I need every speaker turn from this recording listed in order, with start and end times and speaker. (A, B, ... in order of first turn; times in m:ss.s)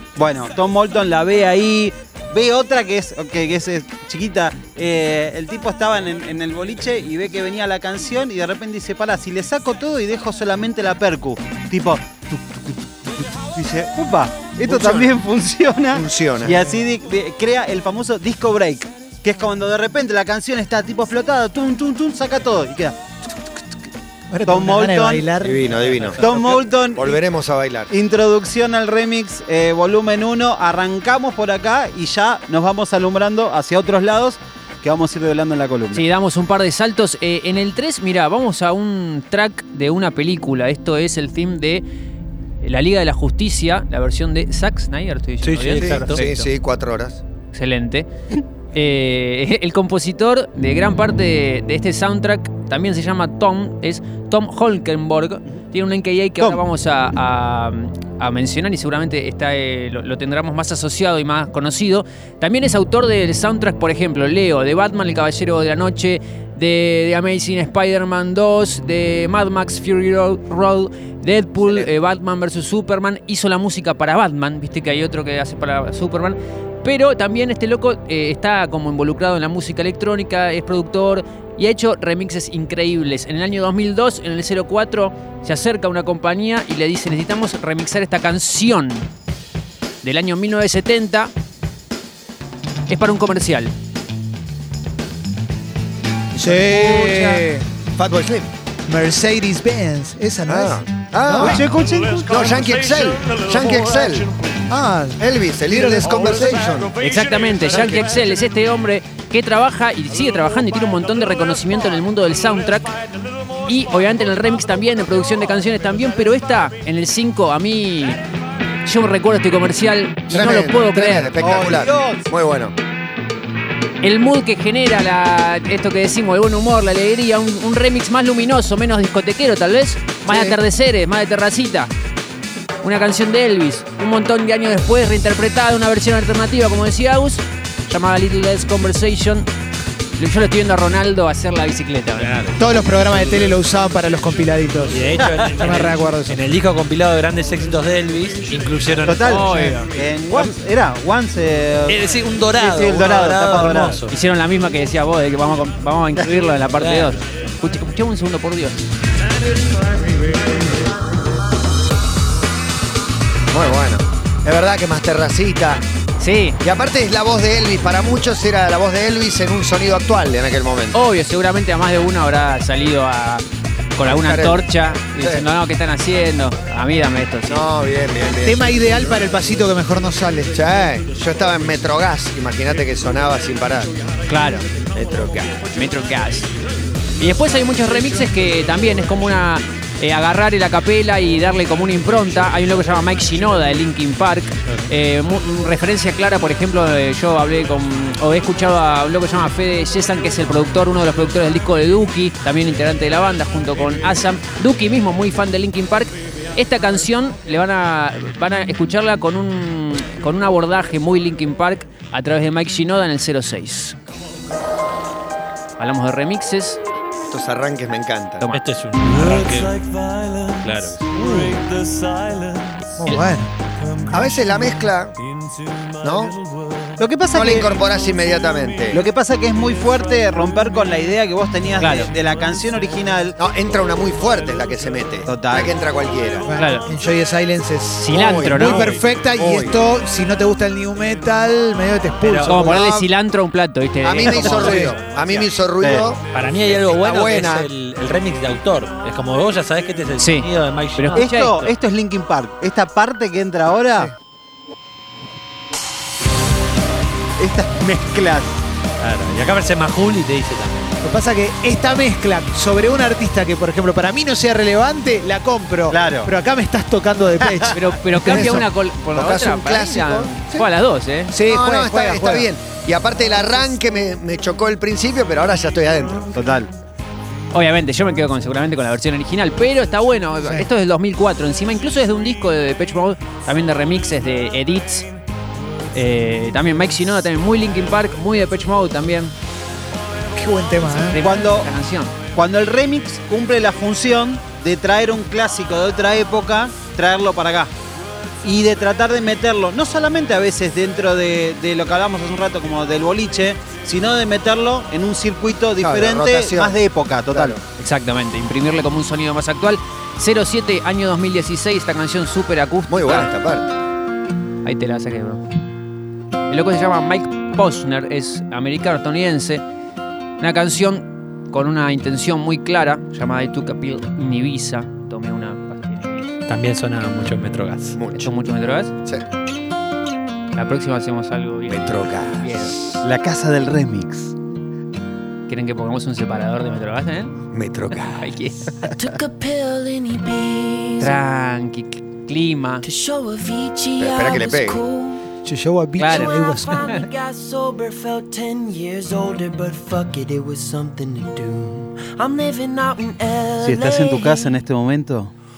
0:00.2-0:23.0 A
0:14.7-0:15.0 B
0:15.9-0:16.6 B
0:24.3-0:25.6 C
0:24.5-0:25.3 A
0:25.4-0:27.9 B
0:26.2-0:27.2 A
0:27.9-0:36.0 A
0:35.9-0:41.8 D
0:42.6-0:46.5 D
0:45.4-0:46.2 E
0:45.7-0:47.2 B
0:47.5-0:48.1 D
0:48.7-1:29.1 D
1:30.0-1:31.3 D
1:32.9-1:33.7 D
1:36.4-1:37.7 C
1:36.6-1:37.4 D
1:38.0-1:38.5 B
1:38.9-1:41.6 C
1:40.5-1:41.7 B
1:41.4-1:42.6 A
1:42.3-1:44.3 B
1:44.7-1:46.6 C
1:45.2-1:46.9 B
1:47.0-1:52.9 D
1:53.7-1:58.2 D
1:58.8-2:01.3 D
2:00.3-2:02.8 B
2:01.4-2:02.2 A
2:04.0-2:11.9 D
2:10.2-2:10.6 B
2:12.8-2:19.5 D
2:20.2-2:22.4 D
2:22.2-2:22.7 E
2:22.6-2:26.4 C
2:24.9-2:29.5 E
2:29.0-2:32.0 A
2:29.2-2:29.9 D
2:31.9-2:34.2 E
2:32.5-2:34.0 A
2:34.1-2:38.8 D
2:36.8-2:37.2 E
2:43.5-2:45.8 B
2:46.2-2:46.6 D
2:46.6-2:51.0 B
2:50.9-2:53.4 D
2:54.0-2:57.6 D
2:54.0-2:55.5 B
2:57.5-2:59.2 B
2:58.4-3:00.5 C
3:00.5-3:03.9 B
3:04.3-3:04.7 D
3:04.9-3:05.6 B
3:05.3-3:06.5 D
3:07.2-3:34.0 D
3:35.8-3:36.8 D
3:37.3-3:38.5 B
3:38.5-3:39.8 E
3:40.6-3:41.2 E
3:41.2-3:41.6 C
3:43.0-3:43.5 C
3:44.1-3:45.2 B
3:46.0-3:46.4 B
3:47.0-3:47.7 A
3:47.3-3:49.0 B
3:48.9-3:53.4 A
3:51.8-3:52.1 D
3:53.4-3:56.5 B
3:55.3-3:55.7 A
3:56.5-4:03.1 C
3:56.6-3:56.9 D
3:58.0-3:59.0 D
3:58.1-3:59.8 B
4:02.2-4:02.8 E
4:02.5-4:04.9 D
4:04.0-4:07.7 B
4:04.5-4:05.0 C
4:05.8-4:06.1 A
4:06.3-4:11.7 E
4:10.2-4:11.7 D
4:11.2-4:14.1 A
4:17.4-4:18.6 A
4:19.0-4:20.9 E
4:21.0-4:28.7 C
4:25.9-4:26.3 A
4:27.4-4:27.8 A
4:27.7-4:31.3 D
4:28.2-4:30.7 B
4:31.3-4:32.5 C
4:31.4-4:36.3 B
4:36.4-4:36.7 A
4:37.5-4:45.1 D
4:40.4-4:40.7 C
4:45.9-4:49.3 D
4:50.4-4:51.2 C
4:51.1-4:52.1 D
4:51.2-4:51.7 A
4:52.3-4:57.7 A
4:58.4-5:07.6 A
5:05.8-5:06.8 B
5:07.3-5:07.6 B
5:07.8-5:13.3 D
5:12.9-5:13.7 B
5:14.6-5:15.4 D
5:16.5-5:19.6 D
5:20.4-5:26.3 D
5:26.5-5:28.0 E
5:28.0-5:28.5 B
5:28.1-5:28.9 D
5:30.5-5:32.8 D
5:31.7-5:33.0 B
5:33.0-5:34.3 A
5:35.5-5:37.4 D
5:37.5-5:38.4 B
5:38.1-5:38.9 D
5:38.9-5:41.2 F
5:41.0-5:42.8 D
5:42.8-5:45.3 F
5:44.0-5:44.8 B
5:45.4-5:46.8 C
5:46.0-5:47.0 D
5:46.0-5:54.5 F
5:53.6-5:55.3 A